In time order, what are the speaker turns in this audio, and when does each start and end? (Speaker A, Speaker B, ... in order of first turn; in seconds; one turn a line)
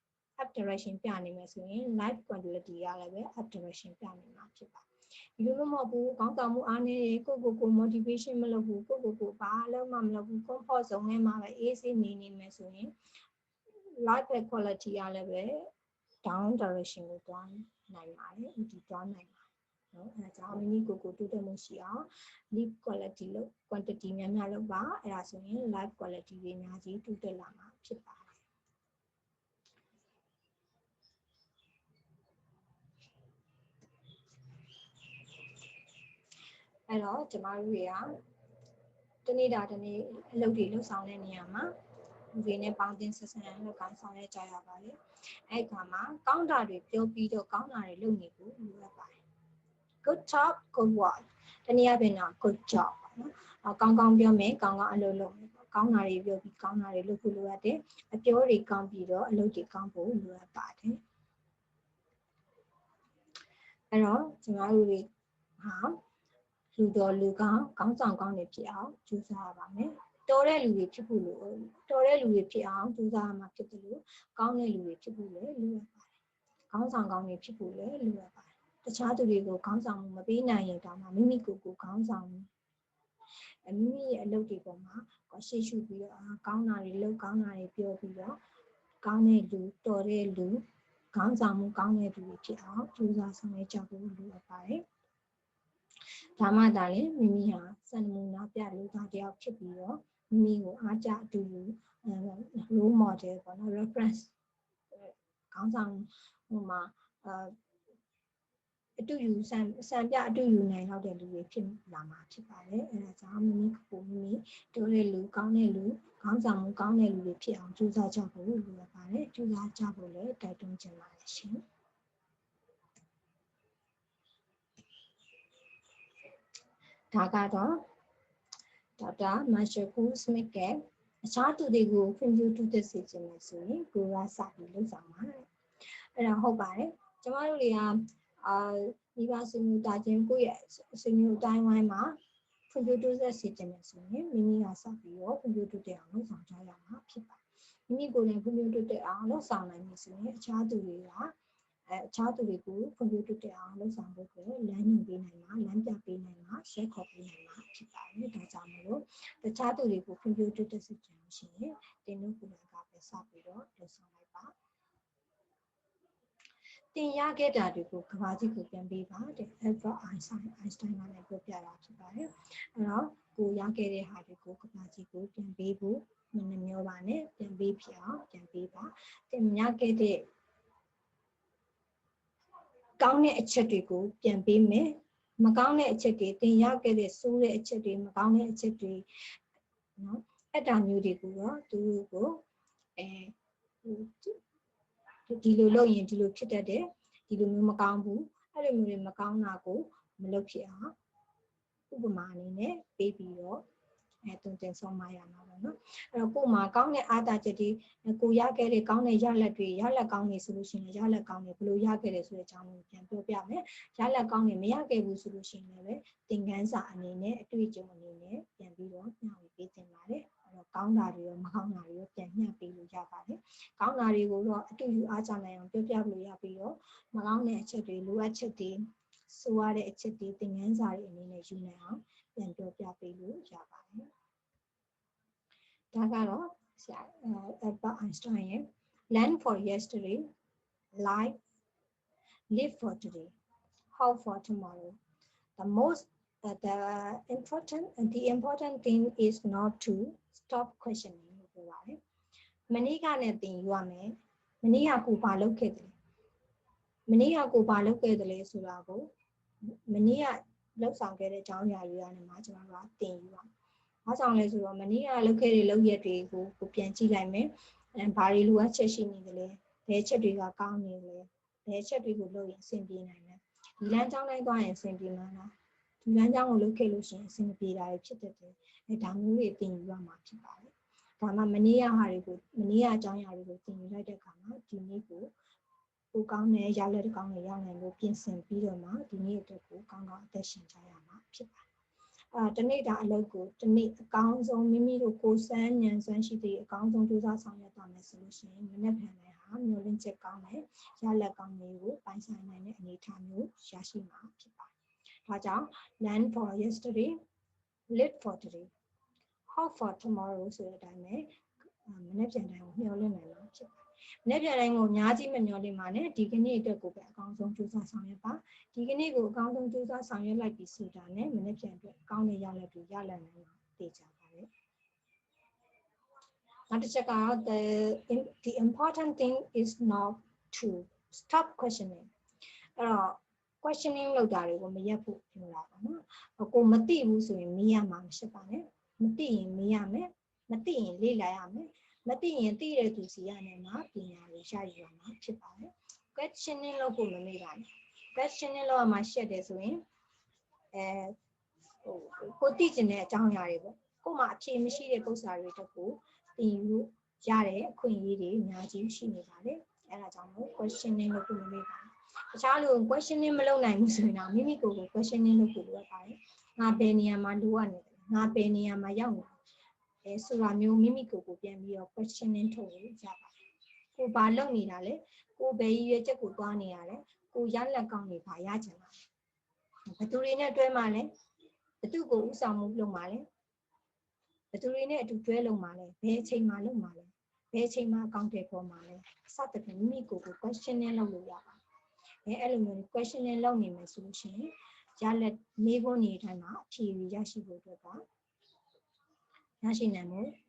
Speaker A: 0.4-4.9
Speaker A: 5.4-12.9
Speaker A: 14.0-15.7
Speaker A: 16.2-28.4
Speaker A: 36.9-38.1
Speaker A: 39.2-41.7
Speaker A: 42.3-45.0
Speaker A: 45.5-49.2
Speaker A: 50.0-61.0
Speaker A: 63.9-65.1
Speaker A: 65.6-66.0
Speaker A: 66.7-76.1
Speaker A: 76.7-82.5
Speaker A: 83.6-88.4
Speaker A: 89.0-94.8
Speaker A: 96.4-104.3
Speaker A: 104.9-107.5
Speaker A: 109.0-121.6
Speaker A: 127.1-127.8
Speaker A: 129.0-135.4
Speaker A: 136.2-142.2
Speaker A: 142.7-151.3
Speaker A: 151.9-164.5
Speaker A: 166.9-180.3
Speaker A: 183.0-189.1
Speaker A: 190.0-192.4
Speaker A: 193.0-194.4
Speaker A: 195.3-200.9
Speaker A: 201.9-203.6
Speaker A: 204.2-234.1
Speaker A: 235.9-240.3
Speaker A: 240.9-241.4
Speaker A: 242.5-243.3
Speaker A: 243.9-245.0
Speaker A: 245.6-252.0
Speaker A: 252.7-255.9
Speaker A: 257.1-259.1
Speaker A: 259.6-263.5
Speaker A: 264.1-285.3
Speaker A: 286.1-291.6
Speaker A: 292.3-304.7
Speaker A: 305.3-307.1
Speaker A: 307.9-308.7
Speaker A: 309.5-311.3
Speaker A: 311.8-324.5
Speaker A: 326.7-332.1
Speaker A: 332.8-349.8
Speaker A: 350.7-351.1
Speaker A: 351.8-369.4
Speaker A: 370.0-373.4
Speaker A: 373.9-379.0
Speaker A: 379.9-381.1
Speaker A: 381.8-383.2
Speaker A: 384.5-391.6
Speaker A: 392.2-398.0
Speaker A: 399.6-400.3